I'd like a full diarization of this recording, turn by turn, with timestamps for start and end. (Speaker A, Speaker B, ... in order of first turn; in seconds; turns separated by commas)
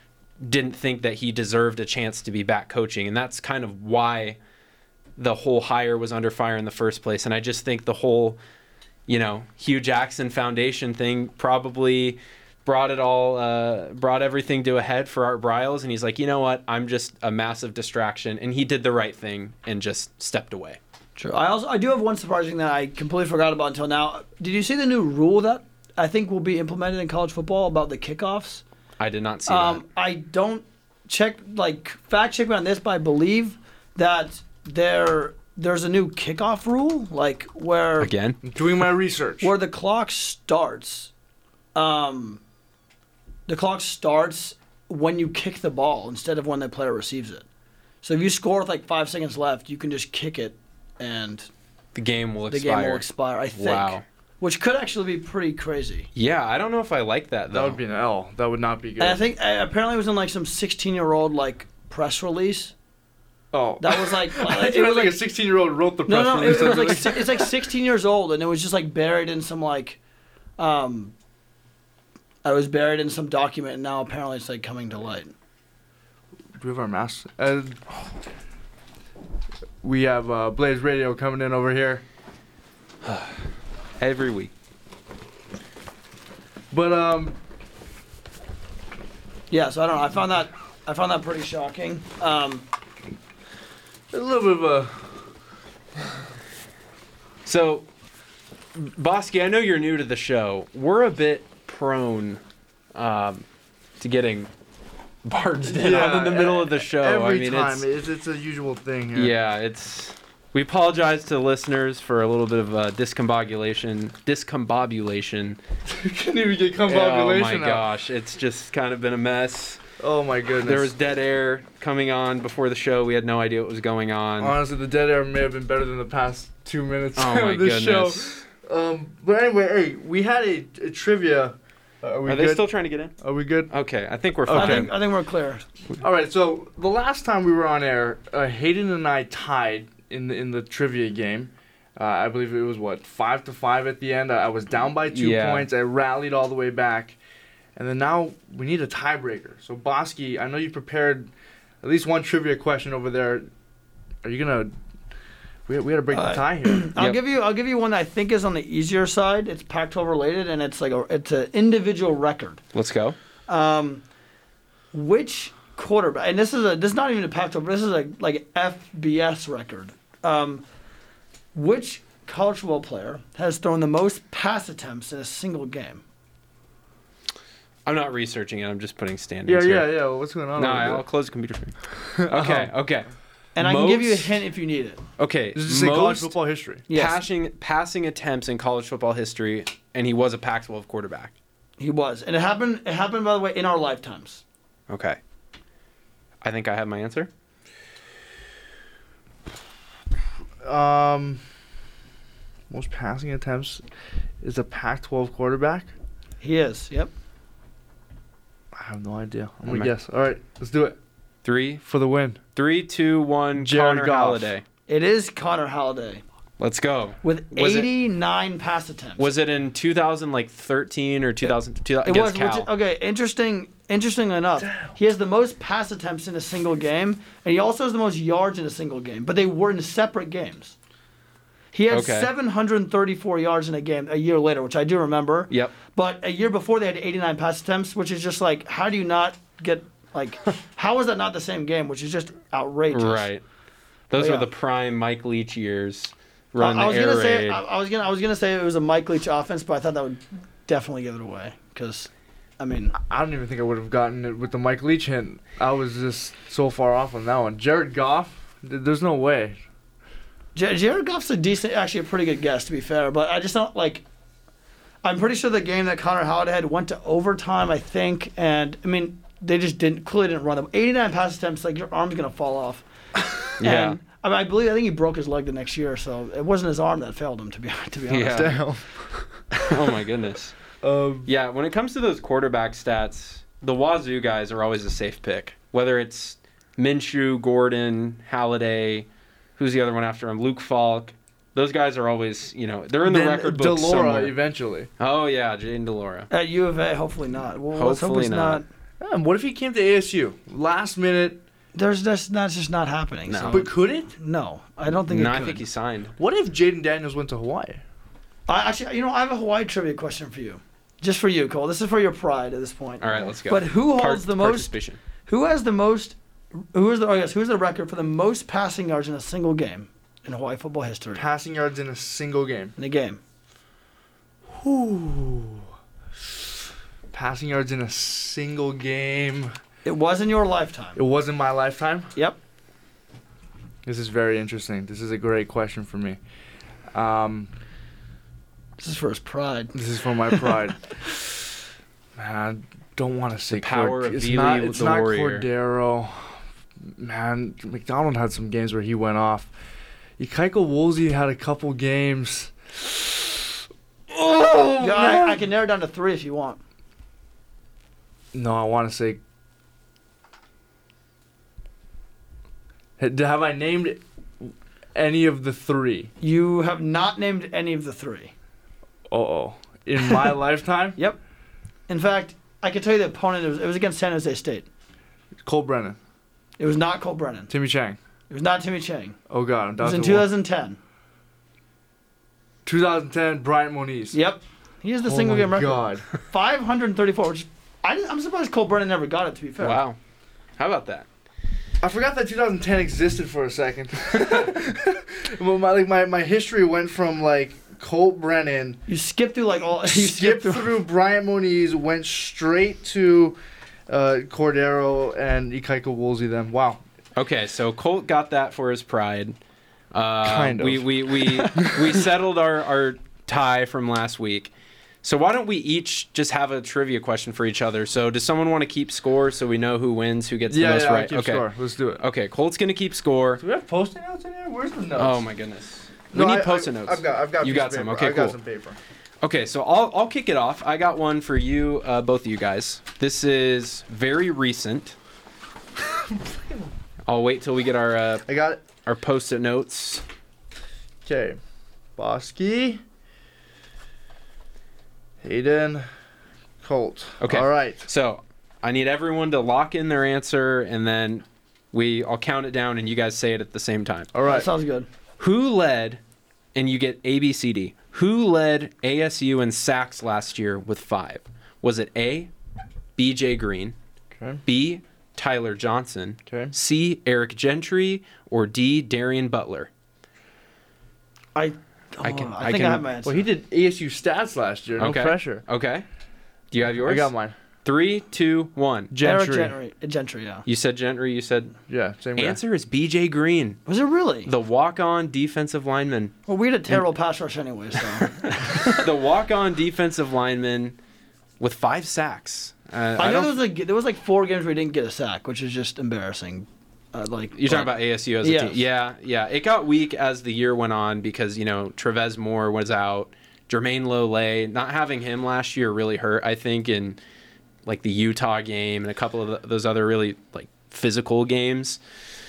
Speaker A: 0.4-4.4, Speaker A: 5.2-8.4, Speaker A: 9.1-20.8, Speaker B: 21.2-28.6, Speaker A: 29.0-29.8, Speaker B: 29.5-38.1, Speaker A: 38.0-38.4, Speaker C: 38.4-39.5, Speaker B: 39.4-41.1, Speaker B: 41.8-42.4, Speaker B: 43.5-47.5, Speaker B: 48.0-51.5, Speaker A: 52.0-54.0, Speaker B: 52.5-56.1, Speaker A: 56.1-57.8, Speaker C: 57.5-59.2, Speaker B: 59.0-62.7, Speaker C: 63.5-67.5, Speaker B: 63.8-65.2, Speaker B: 66.1-70.0, Speaker B: 70.6-71.1, Speaker B: 72.4-75.3, Speaker C: 76.6-77.8, Speaker C: 79.8-82.0, Speaker A: 83.0-83.3, Speaker A: 84.0-84.5, Speaker C: 86.7-87.4, Speaker B: 89.5-92.7, Speaker C: 94.1-95.1, Speaker A: 97.5-97.9, Speaker A: 98.8-102.4, Speaker A: 102.9-103.5, Speaker A: 104.0-104.5, Speaker A: 105.2-107.8, Speaker C: 105.8-109.3, Speaker A: 109.1-115.6, Speaker C: 115.9-117.8, Speaker A: 116.9-119.8, Speaker C: 120.0-120.9, Speaker A: 120.6-124.6, Speaker C: 124.4-132.7, Speaker A: 127.2-128.4, Speaker A: 132.3-133.2, Speaker C: 133.2-133.7, Speaker A: 133.7-134.9, Speaker C: 134.5-134.9, Speaker B: 134.5-135.7, Speaker C: 136.0-147.2, Speaker A: 145.1-145.7, Speaker C: 147.8-151.3, Speaker C: 151.8-153.5, Speaker C: 154.2-154.7, Speaker C: 155.7-156.9, Speaker B: 156.1-162.6, Speaker A: 162.8-163.2, Speaker B: 163.5-164.0, Speaker B: 164.9-170.7, Speaker B: 171.5-176.0, Speaker A: 177.9-179.9, Speaker C: 179.5-181.1, Speaker A: 180.6-184.3, Speaker C: 182.2-182.7, Speaker B: 183.6-185.0, Speaker A: 185.2-186.3, Speaker C: 185.6-186.8, Speaker B: 186.9-187.2, Speaker A: 186.9-191.3, Speaker B: 191.8-194.4, Speaker A: 194.9-195.2, Speaker A: 196.4-197.3, Speaker C: 200.6-201.4, Speaker C: 202.7-203.8, Speaker C: 204.4-205.9, Speaker B: 206.4-207.1, Speaker C: 208.7-211.0, Speaker A: 209.7-209.9, Speaker A: 211.4-211.8, Speaker C: 211.8-212.4, Speaker A: 212.6-214.6, Speaker C: 213.6-214.5, Speaker B: 214.9-216.2, Speaker A: 216.6-217.9, Speaker B: 217.2-219.2, Speaker A: 219.2-222.7, Speaker B: 221.4-230.8, Speaker C: 224.6-224.9, Speaker B: 231.7-243.3, Speaker A: 231.9-232.3, Speaker A: 235.5-235.8, Speaker A: 242.9-243.4, Speaker A: 244.1-247.6, Speaker B: 244.1-244.5, Speaker B: 246.6-252.9, Speaker C: 252.9-259.6, Speaker B: 260.6-264.0, Speaker B: 265.0-272.9, Speaker B: 273.5-278.6, Speaker A: 273.6-274.0, Speaker A: 278.1-278.5, Speaker C: 278.3-279.2, Speaker A: 279.5-280.6, Speaker C: 280.8-281.3, Speaker A: 281.2-294.4, Speaker C: 293.0-294.9, Speaker A: 295.0-296.3, Speaker B: 296.3-298.6, Speaker A: 297.7-298.6, Speaker C: 299.0-301.4, Speaker B: 301.8-305.6, Speaker A: 303.3-303.6, Speaker C: 303.5-304.1, Speaker A: 305.1-306.1, Speaker C: 306.2-307.8, Speaker B: 308.5-314.7, Speaker A: 313.0-315.0, Speaker B: 315.3-316.2, Speaker B: 316.7-321.3, Speaker C: 321.1-322.8, Speaker B: 322.8-323.2, Speaker C: 324.5-325.6, Speaker C: 327.1-329.5, Speaker B: 329.9-331.0, Speaker C: 331.0-332.1, Speaker C: 333.9-336.2, Speaker C: 336.9-337.5, Speaker B: 338.8-339.8, Speaker C: 339.7-341.5, Speaker B: 340.3-340.6, Speaker C: 342.2-349.5, Speaker A: 343.5-345.5, Speaker C: 350.2-353.5, Speaker C: 354.1-355.4, Speaker B: 354.8-356.6, Speaker C: 358.3-359.2, Speaker C: 363.0-366.1, Speaker B: 366.2-368.3, Speaker C: 369.1-371.0, Speaker B: 371.9-374.7, Speaker C: 375.4-376.0, Speaker B: 376.6-377.5, Speaker C: 377.5-378.0, Speaker B: 378.3-379.2, Speaker C: 379.3-380.3, Speaker B: 379.8-380.8, Speaker C: 382.6-384.2, Speaker B: 384.1-389.8, Speaker C: 385.0-386.1, Speaker A: 389.6-390.0, Speaker A: 390.6-391.1, Speaker C: 391.8-398.8, Speaker B: 398.9-400.8, Speaker C: 399.8-406.8, Speaker A: 407.2-409.4, Speaker A: 409.9-414.5, Speaker C: 410.2-411.9, Speaker A: 415.0-421.5, Speaker C: 420.5-422.0, Speaker A: 422.0-423.4, Speaker C: 423.4-425.2, Speaker A: 425.0-428.4, Speaker C: 426.1-428.8, Speaker A: 429.2-435.0, Speaker C: 435.9-436.7, Speaker A: 437.1-438.3, Speaker C: 438.3-438.6, Speaker A: 438.9-440.0, Speaker C: 441.0-441.4, Speaker C: 442.0-442.8, Speaker C: 445.2-445.9, Speaker C: 446.6-447.9, Speaker A: 447.2-454.1, Speaker C: 454.1-454.5, Speaker B: 454.2-454.9, Speaker A: 455.2-456.0, Speaker A: 456.6-462.3, Speaker A: 463.0-463.8, Speaker C: 464.2-464.4, Speaker A: 464.5-469.7, Speaker C: 466.3-466.5, Speaker B: 471.4-473.2, Speaker A: 472.0-472.9, Speaker C: 473.0-475.4, Speaker A: 474.8-475.9, Speaker A: 476.5-477.1, Speaker C: 476.8-477.4, Speaker A: 477.6-478.9, Speaker C: 478.9-479.5, Speaker B: 479.0-480.5, Speaker A: 480.5-481.6, Speaker C: 481.7-482.4, Speaker A: 482.2-483.6, Speaker B: 483.7-484.3, Speaker A: 484.3-486.1, Speaker B: 486.3-488.9, Speaker A: 488.0-490.8, Speaker A: 491.4-493.3, Speaker B: 493.0-498.6, Speaker A: 497.4-507.0, Speaker A: 507.7-511.8